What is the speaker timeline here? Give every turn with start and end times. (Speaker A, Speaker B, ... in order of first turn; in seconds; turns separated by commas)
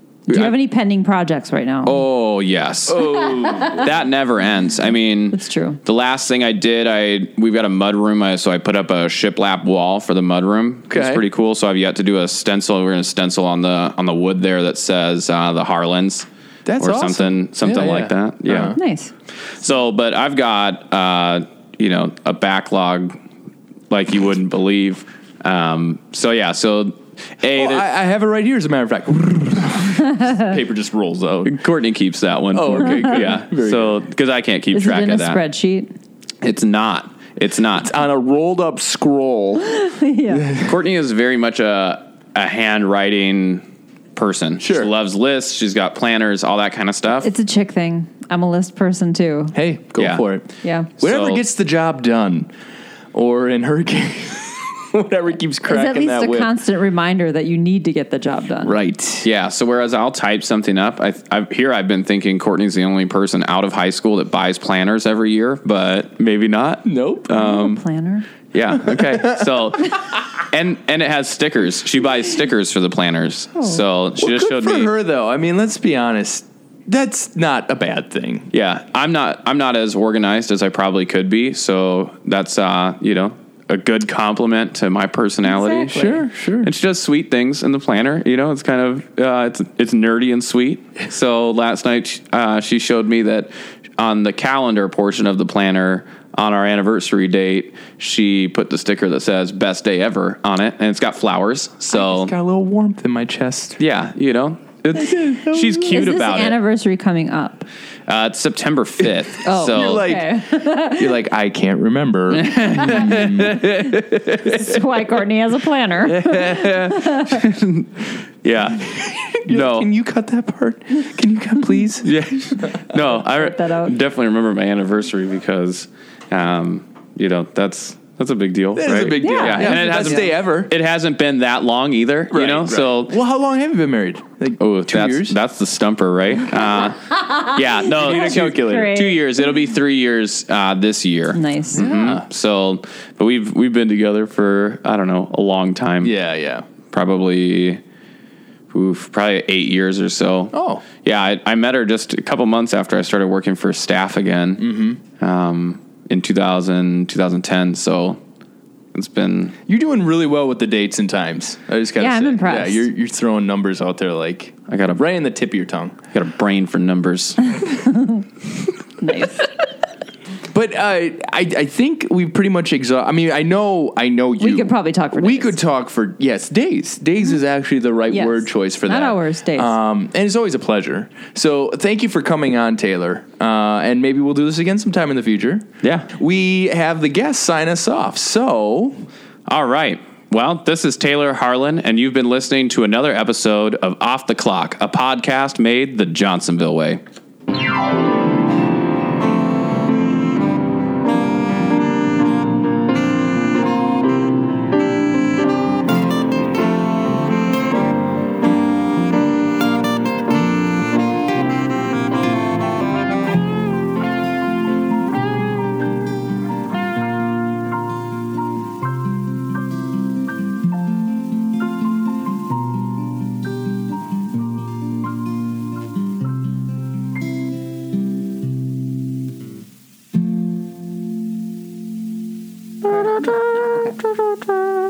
Speaker A: 0.3-2.0, Speaker B: 1.9-16.3, Speaker C: 2.9-3.9, Speaker A: 5.3-5.8, Speaker C: 10.9-11.2, Speaker C: 16.7-18.8, Speaker B: 16.8-18.8, Speaker A: 18.7-19.1, Speaker B: 19.6-23.2, Speaker B: 23.9-27.9, Speaker C: 27.5-31.6, Speaker B: 31.4-35.4, Speaker C: 32.5-34.0, Speaker A: 34.7-35.9, Speaker B: 36.4-37.9, Speaker C: 37.8-40.8, Speaker A: 39.8-40.5, Speaker B: 40.6-47.3, Speaker C: 44.6-44.9, Speaker A: 47.2-49.6, Speaker C: 49.5-50.5, Speaker B: 50.0-50.2, Speaker A: 50.6-50.9, Speaker B: 51.0-51.4, Speaker C: 51.0-52.5, Speaker C: 53.1-56.5, Speaker A: 55.7-58.8, Speaker C: 58.6-59.3, Speaker B: 59.2-67.8, Speaker C: 66.9-67.4, Speaker A: 67.3-68.3, Speaker B: 68.5-74.9, Speaker C: 68.8-69.5, Speaker C: 74.2-78.5, Speaker B: 78.5-102.3, Speaker A: 85.4-86.2, Speaker C: 85.9-86.7, Speaker C: 101.9-103.8, Speaker B: 103.8-106.6, Speaker C: 104.9-106.0, Speaker A: 105.9-107.7, Speaker B: 108.1-110.1, Speaker A: 109.4-111.2, Speaker C: 109.6-113.6, Speaker B: 112.3-114.8, Speaker A: 112.9-113.2, Speaker A: 114.4-117.3, Speaker B: 116.0-119.9, Speaker C: 118.9-122.1, Speaker B: 122.0-133.2, Speaker A: 123.0-124.0, Speaker C: 128.8-130.7, Speaker A: 129.2-130.3, Speaker C: 132.3-135.4, Speaker B: 134.6-146.1, Speaker A: 137.1-139.2, Speaker C: 137.9-139.0, Speaker A: 141.3-141.9, Speaker C: 141.7-142.2, Speaker C: 146.0-146.7, Speaker B: 146.9-147.8, Speaker B: 148.7-154.7, Speaker C: 150.5-150.8, Speaker C: 154.6-155.0, Speaker B: 155.2-158.2, Speaker B: 158.9-159.6, Speaker C: 159.7-166.0, Speaker A: 162.0-162.9, Speaker B: 164.7-165.0, Speaker B: 166.1-167.6, Speaker A: 167.6-168.2, Speaker A: 169.0-169.4, Speaker C: 170.5-189.0, Speaker A: 174.4-175.6, Speaker A: 178.1-179.8, Speaker B: 185.8-186.1, Speaker B: 189.5-197.0, Speaker A: 232.8-234.0